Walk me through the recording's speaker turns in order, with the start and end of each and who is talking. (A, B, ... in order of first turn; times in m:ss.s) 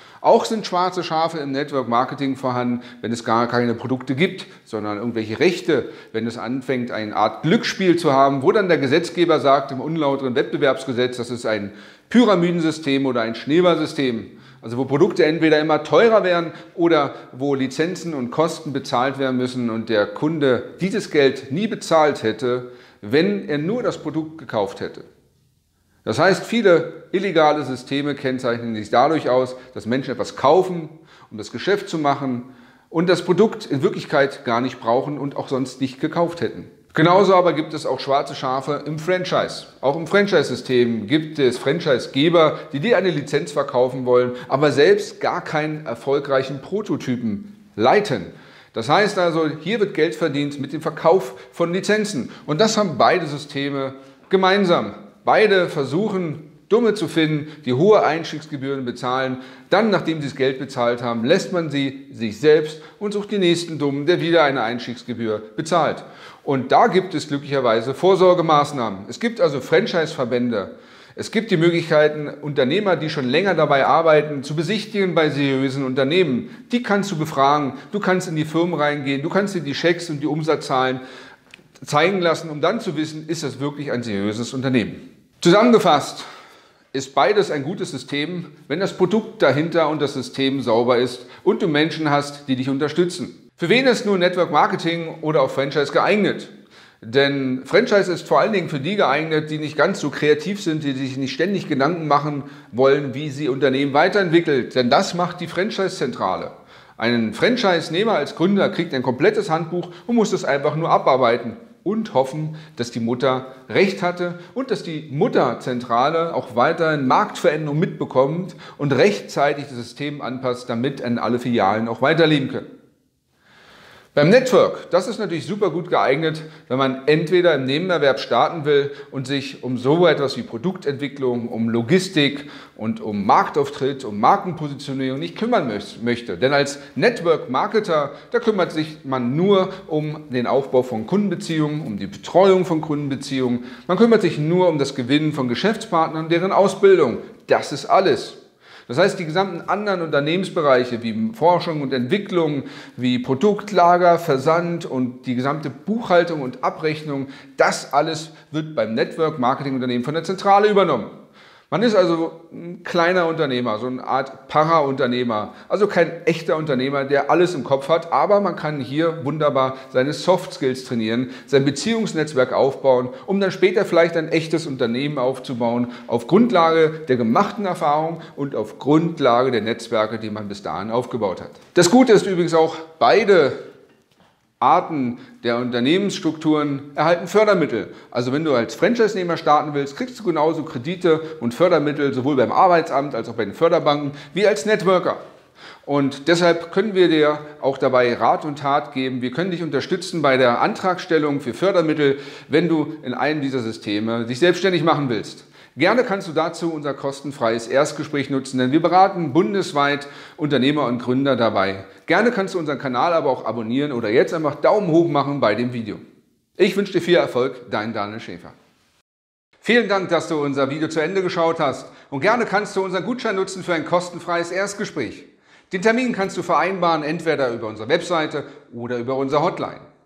0:00.2-0:25.1 A
0:26.0-1:21.0 A
1:21.8-1:26.2 A
1:26.9-2:02.7 A
2:04.2-2:41.1 A
2:41.7-3:03.6 A
3:04.6-3:15.2 A
3:15.8-3:36.0 A
3:36.6-3:38.6 A
3:39.6-3:49.8 A